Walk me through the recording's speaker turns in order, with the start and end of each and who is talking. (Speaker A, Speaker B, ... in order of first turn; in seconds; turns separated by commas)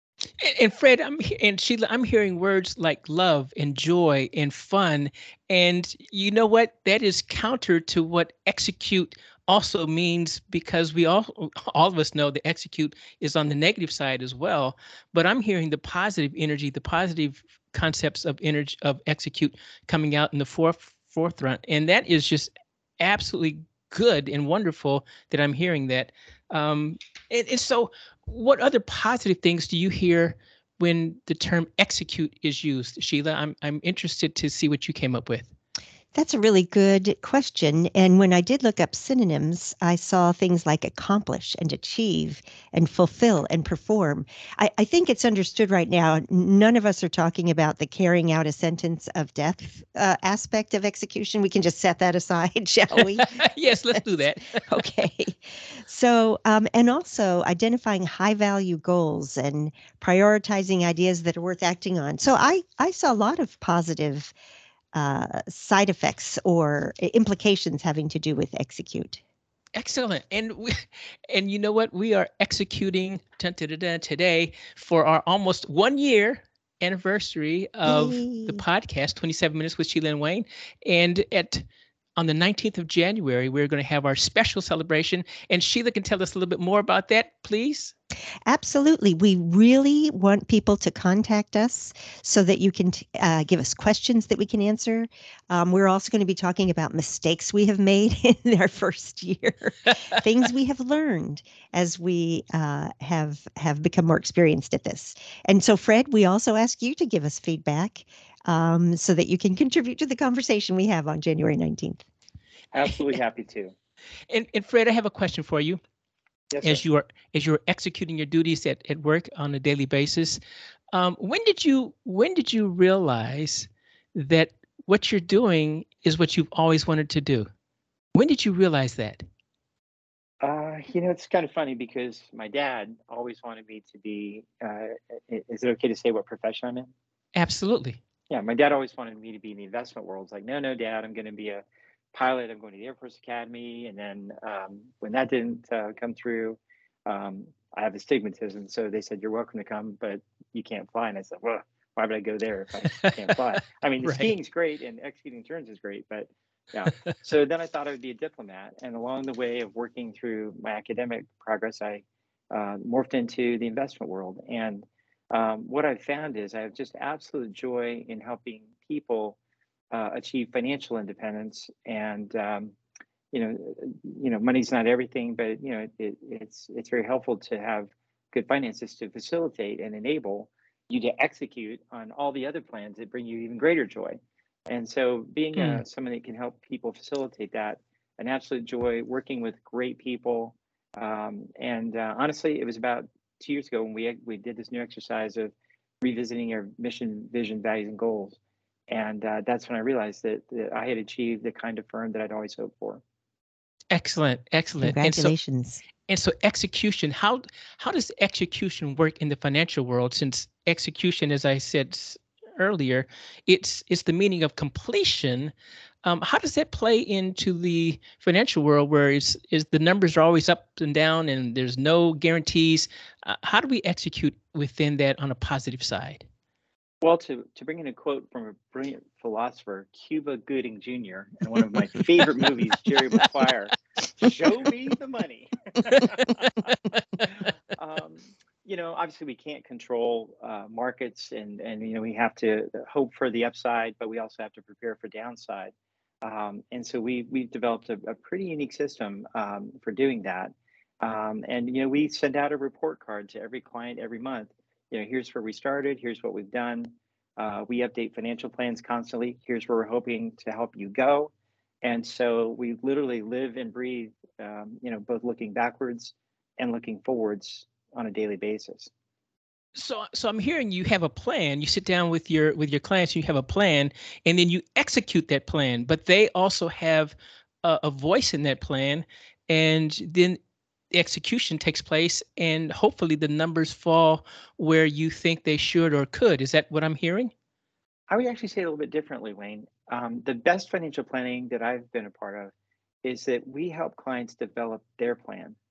Speaker A: 0.4-35.5, Speaker B: 36.1-53.4, Speaker A: 52.9-54.6, Speaker B: 54.6-64.3, Speaker B: 64.9-69.2, Speaker A: 69.7-81.6, Speaker B: 77.8-78.6, Speaker A: 82.2-87.9, Speaker B: 88.5-112.0, Speaker C: 112.7-113.7, Speaker A: 114.3-115.8, Speaker C: 116.5-116.8, Speaker A: 116.6-120.4, Speaker A: 120.9-127.5, Speaker A: 128.1-129.2, Speaker C: 130.4-136.9, Speaker A: 137.3-138.0, Speaker C: 138.3-141.6, Speaker C: 142.1-169.4, Speaker A: 154.0-154.3, Speaker C: 169.9-172.7, Speaker C: 173.3-198.4, Speaker A: 185.6-185.8, Speaker C: 198.9-203.0, Speaker A: 203.9-205.3, Speaker B: 204.8-205.8, Speaker A: 206.1-215.5, Speaker A: 216.0-226.3, Speaker C: 227.0-236.6, Speaker A: 235.9-236.5, Speaker C: 237.2-268.9, Speaker A: 269.7-280.4, Speaker A: 280.9-287.3, Speaker C: 288.1-292.5, Speaker C: 293.0-295.6